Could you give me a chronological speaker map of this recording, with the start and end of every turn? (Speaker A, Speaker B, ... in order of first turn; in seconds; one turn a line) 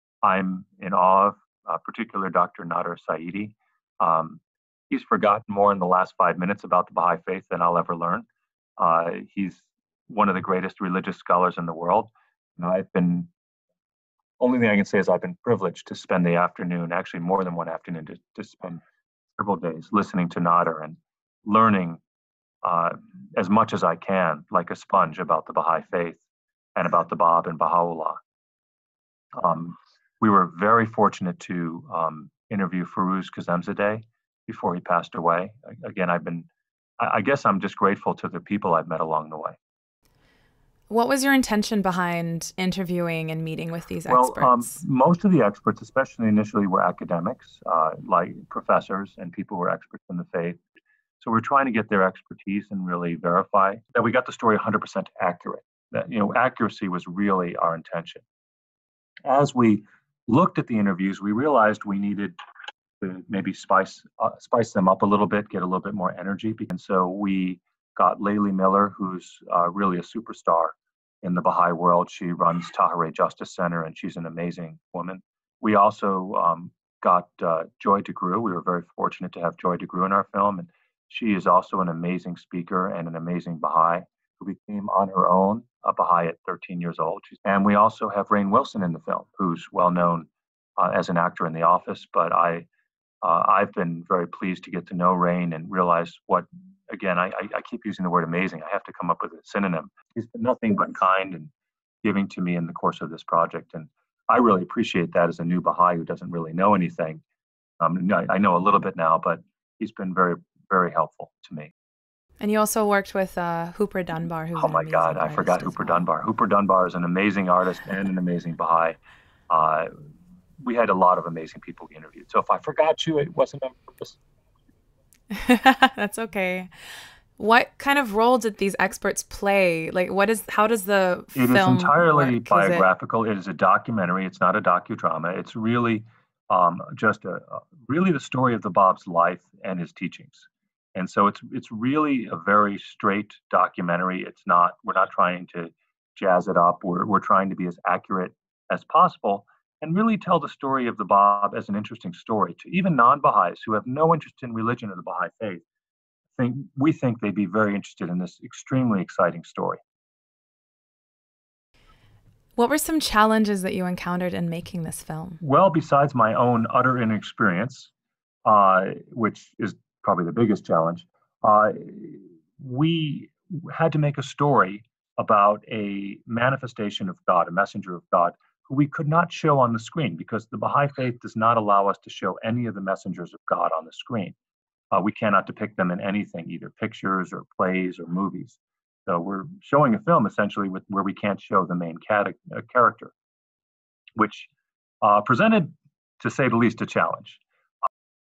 Speaker A: 0.2-8.3
Speaker A: 8.8-13.3
Speaker A: 14.4-18.8
Speaker A: 19.4-22.0
Speaker A: 22.6-26.2
Speaker A: 26.8-28.2
Speaker A: 29.4-36.5
Speaker A: 37.0-39.6
Speaker B: 40.9-44.8
Speaker A: 44.1-50.6
Speaker A: 51.2-58.2
Speaker A: 59.2-62.4
Speaker A: 63.0-92.7
Speaker A: 93.2-101.5
Speaker A: 102.0-107.2
Speaker A: 107.8-111.7
Speaker B: 112.4-116.1
Speaker A: 114.6-119.0
Speaker A: 119.5-119.9
Speaker A: 120.6-124.2
Speaker B: 125.3-126.7
Speaker B: 127.4-132.8
Speaker A: 131.4-155.6
Speaker A: 156.4-159.8
Speaker B: 162.6-165.4
Speaker A: 165.4-167.9
Speaker A: 168.4-184.4
Speaker A: 184.9-193.1
Speaker A: 194.2-194.5
Speaker A: 195.0-197.4